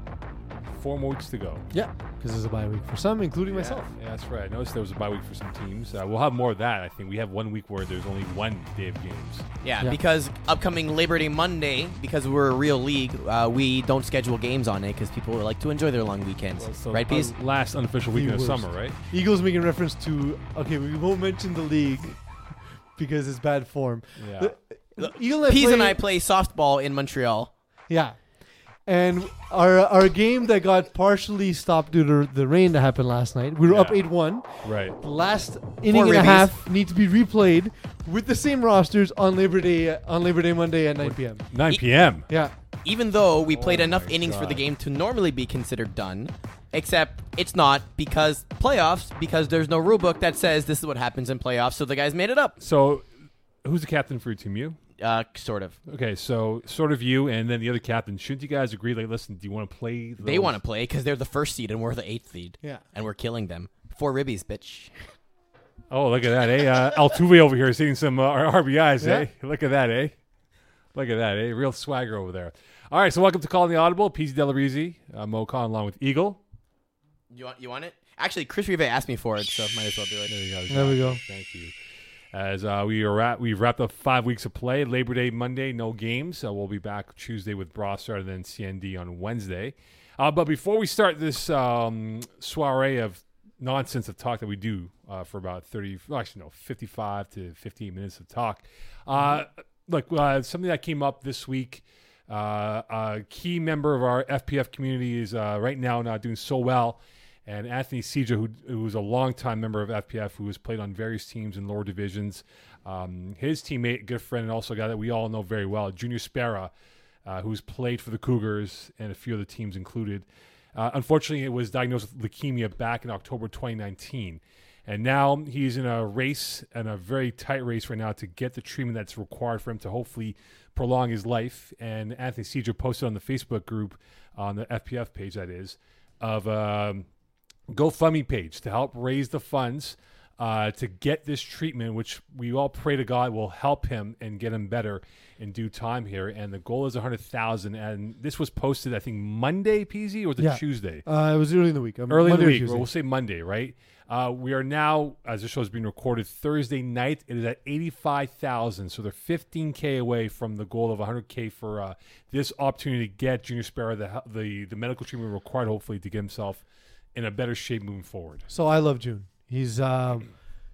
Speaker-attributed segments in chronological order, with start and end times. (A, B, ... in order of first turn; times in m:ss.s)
0:00.7-0:01.6 A
0:01.7-0:03.9 B
0:03.5-0:09.4 A
0:09.6-0:17.3 C
0:16.6-0:19.0 A
0:18.1-0:22.2 B
0:23.0-0:26.0 B
0:24.2-0:24.5 A
0:25.0-0:27.5 C
0:27.9-0:28.2 B
0:28.8-0:41.4 B
0:33.7-0:34.0 A
0:34.6-0:35.0 A
0:35.9-0:36.5 C
0:41.0-0:42.3 A
0:42.8-0:52.6 C
0:43.5-0:44.6 A
0:52.6-0:53.0 A
0:53.6-0:54.8 A
0:55.0-0:55.8 C
0:55.9-1:00.6 A
1:00.2-1:04.9 C
1:05.9-1:10.2 A
1:09.0-1:09.2 B
1:10.9-1:16.4 A
1:17.3-1:20.3 C
1:20.3-1:21.7 A
1:20.7-1:21.2 B
1:22.3-1:56.7 A
1:57.2-2:17.0 A
2:17.7-2:31.0 A
2:30.4-2:32.9 B
2:32.1-2:46.6 A
2:47.1-2:48.4 A
2:48.5-2:50.3 B